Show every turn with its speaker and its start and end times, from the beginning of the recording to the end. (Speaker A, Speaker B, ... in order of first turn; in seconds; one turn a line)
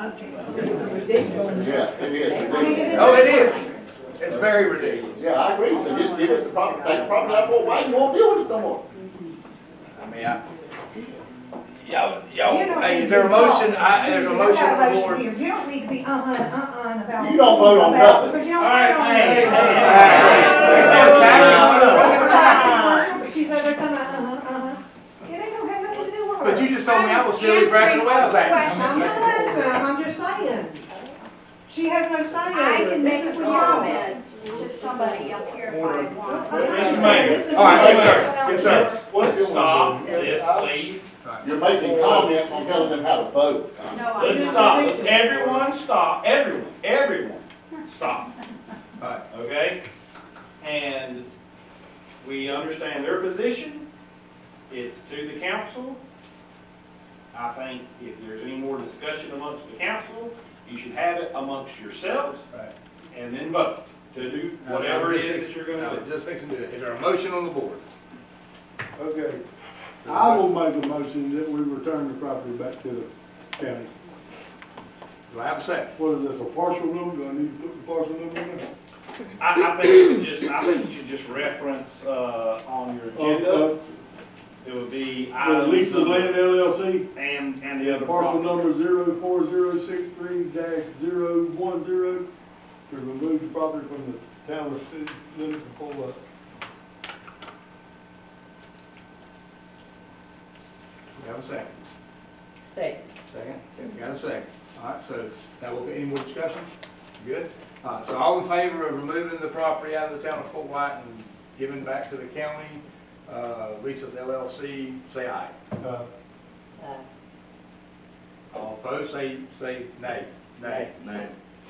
Speaker A: 0.5-2.9
Speaker B: 0.7-1.7
Speaker C: 1.5-3.4
Speaker B: 2.4-3.7
Speaker D: 2.9-3.6
Speaker D: 4.2-5.3
Speaker C: 5.1-8.8
Speaker A: 6.0-7.1
Speaker D: 9.9-10.4
Speaker D: 11.8-15.3
Speaker B: 12.4-26.8
Speaker C: 17.2-18.4
Speaker E: 18.6-22.2
Speaker D: 19.3-22.8
Speaker C: 19.5-22.1
Speaker A: 19.9-20.3
Speaker F: 22.1-22.9
Speaker A: 22.3-23.1
Speaker D: 26.4-29.1
Speaker F: 26.7-29.4
Speaker B: 28.5-31.0
Speaker G: 28.9-29.7
Speaker B: 31.7-35.4
Speaker F: 32.5-37.3
Speaker G: 35.6-37.6
Speaker B: 36.2-38.2
Speaker E: 36.5-41.1
Speaker C: 37.2-38.3
Speaker D: 37.5-38.9
Speaker F: 38.1-39.1
Speaker G: 39.0-40.8
Speaker D: 41.2-41.5
Speaker C: 41.4-44.5
Speaker G: 41.7-42.2
Speaker E: 41.9-42.3
Speaker F: 43.9-45.3
Speaker E: 44.2-48.3
Speaker B: 44.8-45.1
Speaker G: 45.2-45.6
Speaker D: 49.0-49.2
Speaker E: 49.3-49.8
Speaker E: 50.6-51.3
Speaker E: 52.2-53.9
Speaker E: 54.7-56.0
Speaker E: 57.3-62.5
Speaker E: 63.1-66.0
Speaker D: 64.6-67.8
Speaker G: 69.0-69.4
Speaker D: 70.0-70.5
Speaker G: 70.0-73.9
Speaker D: 75.3-75.9
Speaker G: 76.0-78.7
Speaker E: 79.4-83.8
Speaker G: 83.1-83.8
Speaker E: 84.6-86.6
Speaker G: 85.4-87.1
Speaker E: 87.1-88.7
Speaker G: 87.8-92.3
Speaker G: 92.9-96.2
Speaker D: 101.2-101.7
Speaker A: 102.7-103.0
Speaker D: 103.3-106.7
Speaker D: 107.2-115.5
Speaker G: 115.8-116.0
Speaker D: 118.5-120.9
Speaker A: 120.6-120.9
Speaker C: 120.9-121.3